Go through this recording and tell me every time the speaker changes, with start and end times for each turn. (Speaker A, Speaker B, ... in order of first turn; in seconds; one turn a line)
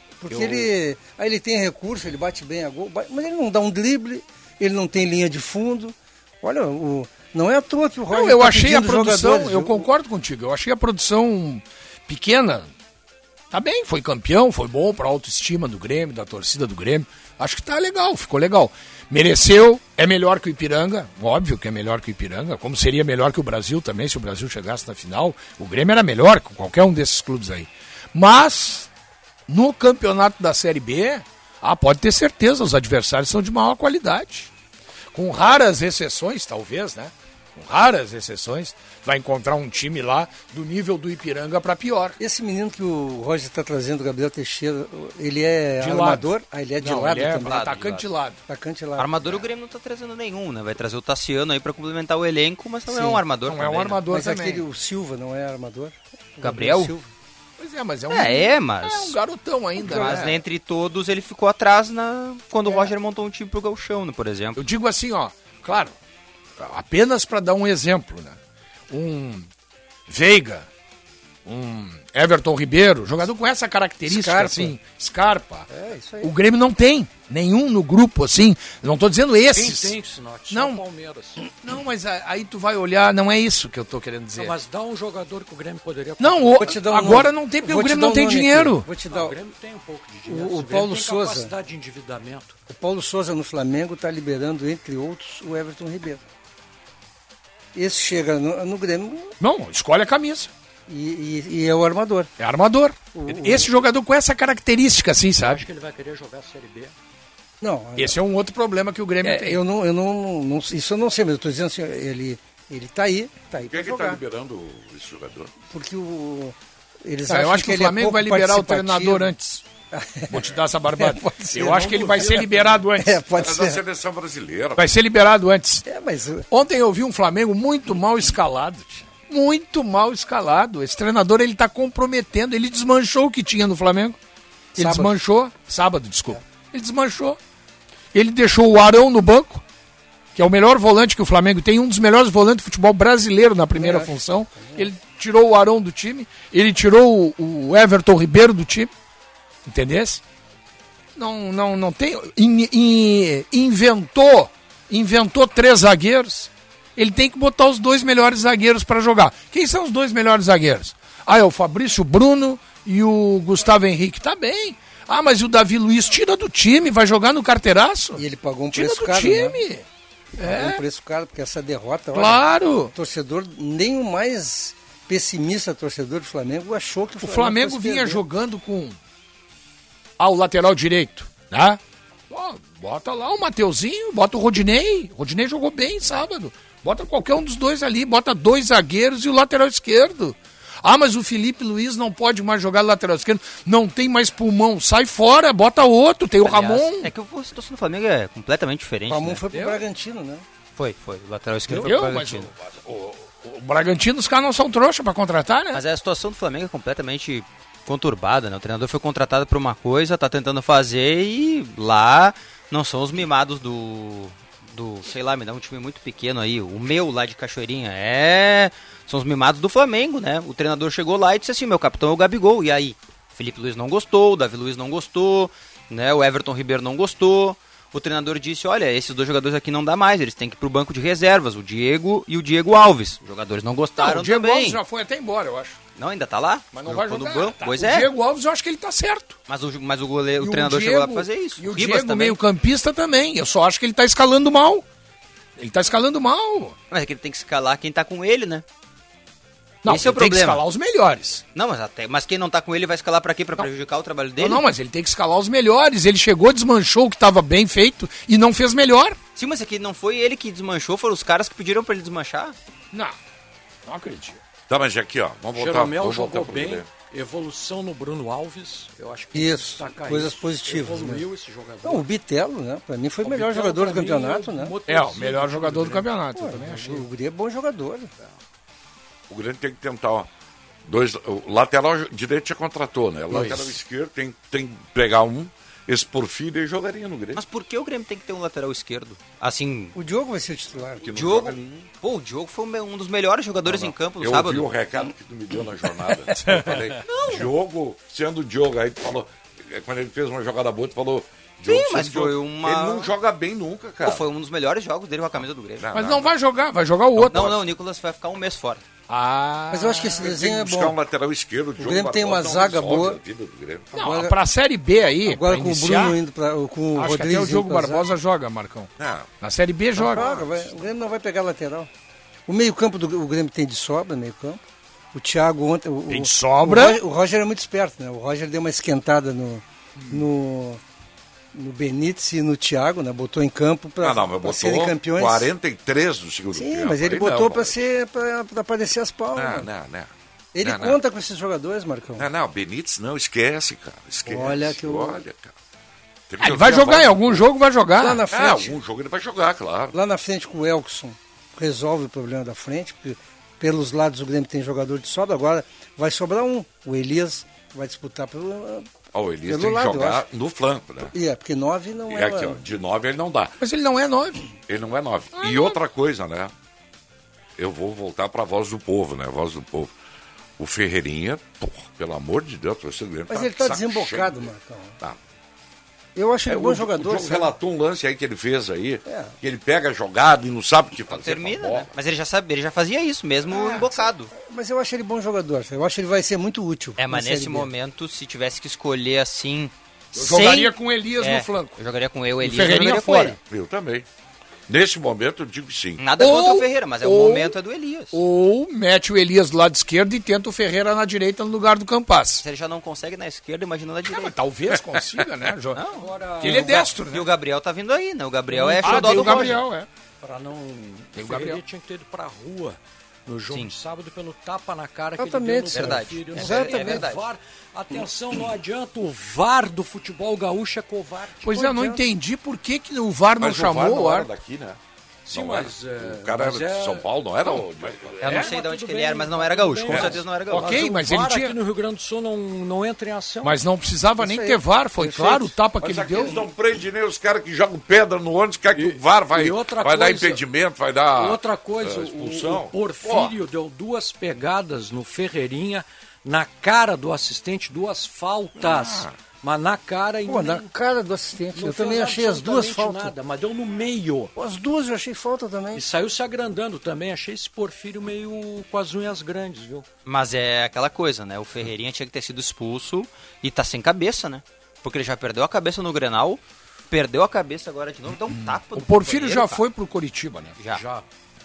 Speaker A: 0.2-9.9
Speaker B: 0.3-0.7
Speaker B: 8.1-12.7
Speaker B: 13.5-28.9
Speaker B: 29.5-34.5
Speaker B: 35.1-42.2
Speaker A: 42.2-47.6
Speaker B: 45.8-46.2
Speaker B: 46.8-48.4
Speaker C: 47.4-48.1
Speaker A: 48.5-49.1
Speaker C: 49.0-54.0
Speaker A: 52.9-53.2
Speaker B: 53.5-54.6
Speaker A: 54.1-57.1
Speaker C: 56.4-56.9
Speaker B: 57.6-60.4
Speaker C: 58.1-59.2
Speaker A: 59.8-60.2
Speaker C: 59.8-64.6
Speaker B: 64.6-66.0
Speaker B: 66.6-68.4
Speaker B: 68.9-69.5
Speaker B: 70.1-70.7
Speaker B: 71.5-75.7
Speaker A: 74.1-74.8
Speaker A: 75.7-76.3
Speaker B: 76.2-80.0
Speaker D: 79.5-81.5
Speaker B: 80.5-80.8
Speaker B: 81.6-84.6
Speaker D: 84.3-86.8
Speaker B: 86.2-88.9
Speaker A: 86.6-89.4
Speaker D: 89.1-92.5
Speaker A: 90.3-91.5
Speaker A: 92.7-96.2
Speaker A: 97.8-99.3
Speaker B: 99.4-100.5
Speaker A: 100.9-102.3
Speaker B: 102.4-105.6
Speaker A: 103.1-103.7
Speaker D: 105.4-107.0
Speaker A: 107.6-108.2
Speaker B: 108.0-109.6
Speaker A: 109.2-114.2
Speaker E: 113.6-115.5
Speaker A: 115.7-119.3
Speaker B: 117.3-119.6
Speaker A: 119.9-123.8
Speaker B: 120.3-123.2
Speaker E: 123.3-124.9
Speaker B: 124.8-125.8
Speaker A: 125.8-126.5
Speaker B: 126.5-134.2
Speaker A: 134.8-135.2
Speaker B: 134.8-137.4
Speaker B: 138.1-139.6
Speaker B: 140.3-148.9
Speaker A: 143.8-144.9
Speaker B: 149.7-150.2
Speaker B: 151.2-168.2
Speaker A: 168.2-169.6
Speaker B: 168.7-169.8
Speaker B: 170.4-170.8
Speaker A: 170.4-178.2
Speaker B: 172.1-172.9
Speaker B: 177.2-179.0
Speaker B: 180.2-197.1
Speaker C: 196.4-199.4
Speaker A: 199.1-200.4
Speaker B: 199.5-199.8
Speaker C: 200.8-202.5
Speaker B: 201.7-205.8
Speaker C: 205.7-234.8
Speaker B: 234.0-235.8
Speaker C: 236.0-238.1
Speaker B: 236.7-239.4
Speaker C: 239.5-242.4
Speaker B: 240.4-244.8
Speaker B: 245.6-246.8
Speaker C: 246.9-248.6
Speaker B: 249.8-251.4
Speaker C: 249.9-250.6
Speaker C: 251.6-254.7
Speaker B: 254.4-259.2
Speaker C: 259.4-262.6
Speaker B: 262.9-263.2
Speaker B: 263.9-264.4
Speaker E: 264.7-266.9
Speaker D: 265.6-272.1
Speaker A: 269.3-271.2
Speaker A: 271.8-274.7
Speaker D: 273.2-276.1
Speaker B: 274.9-277.1
Speaker A: 276.4-278.1
Speaker E: 279.3-280.3
Speaker E: 280.9-287.4
Speaker C: 287.4-289.9
Speaker A: 289.9-291.1
Speaker E: 290.8-291.9
Speaker C: 291.1-294.7
Speaker E: 293.6-304.3
Speaker B: 296.4-297.0
Speaker C: 297.1-297.4
Speaker C: 301.7-303.1
Speaker C: 304.0-305.9
Speaker E: 305.8-306.3
Speaker B: 305.9-307.6
Speaker E: 307.2-307.6
Speaker C: 307.2-308.8
Speaker B: 309.1-310.2
Speaker A: 309.7-311.0
Speaker E: 310.2-313.9
Speaker A: 311.8-313.2
Speaker A: 313.9-314.4
Speaker B: 313.9-316.2
Speaker A: 315.2-318.1
Speaker B: 316.9-320.3
Speaker E: 319.0-319.3
Speaker A: 320.0-321.9
Speaker E: 320.0-320.7
Speaker A: 322.5-324.6
Speaker A: 325.1-330.8
Speaker B: 326.1-327.0
Speaker A: 331.5-335.5
Speaker E: 334.0-337.8
Speaker A: 336.5-339.7
Speaker E: 339.4-341.0
Speaker A: 340.5-342.3
Speaker E: 342.2-345.6
Speaker A: 344.2-345.2
Speaker E: 346.3-347.5
Speaker B: 346.4-348.2
Speaker A: 348.0-348.8
Speaker E: 348.3-349.9
Speaker A: 349.9-358.9
Speaker E: 359.1-361.1
Speaker A: 359.5-360.2
Speaker A: 361.1-362.6
Speaker E: 362.1-363.6
Speaker B: 363.6-364.5
Speaker E: 364.7-366.5
Speaker B: 365.4-365.8
Speaker E: 367.6-369.9
Speaker E: 370.6-375.2
Speaker A: 373.3-375.0
Speaker A: 376.2-377.5
Speaker E: 376.5-381.9
Speaker A: 379.1-379.4
Speaker C: 381.1-384.3
Speaker E: 383.5-383.9
Speaker A: 384.3-387.7
Speaker C: 387.0-393.4
Speaker B: 390.1-391.8
Speaker B: 392.4-393.4
Speaker E: 393.5-394.1
Speaker E: 394.7-396.0
Speaker C: 396.0-398.2
Speaker B: 396.2-397.6
Speaker B: 398.1-402.4
Speaker C: 402.4-404.4
Speaker B: 404.1-405.8
Speaker C: 405.7-409.6
Speaker D: 405.9-406.9
Speaker B: 406.4-407.3
Speaker B: 408.5-409.9
Speaker D: 408.7-409.5
Speaker D: 410.2-421.5
Speaker B: 411.2-411.6
Speaker C: 413.5-413.7
Speaker A: 415.2-417.1
Speaker C: 415.7-417.3
Speaker B: 421.4-424.3
Speaker A: 421.5-422.1
Speaker E: 423.4-428.4
Speaker D: 425.3-427.1
Speaker D: 428.1-433.6
Speaker C: 428.2-430.8
Speaker B: 430.5-431.6
Speaker B: 433.4-436.4
Speaker A: 434.2-435.6
Speaker E: 435.8-443.4
Speaker D: 438.7-440.4
Speaker D: 441.1-450.7
Speaker E: 448.6-449.1
Speaker A: 450.2-453.1
Speaker D: 451.5-454.3
Speaker A: 454.4-455.8
Speaker D: 455.7-459.9
Speaker C: 460.1-469.6
Speaker B: 468.2-470.6
Speaker C: 470.6-470.8
Speaker D: 470.7-471.1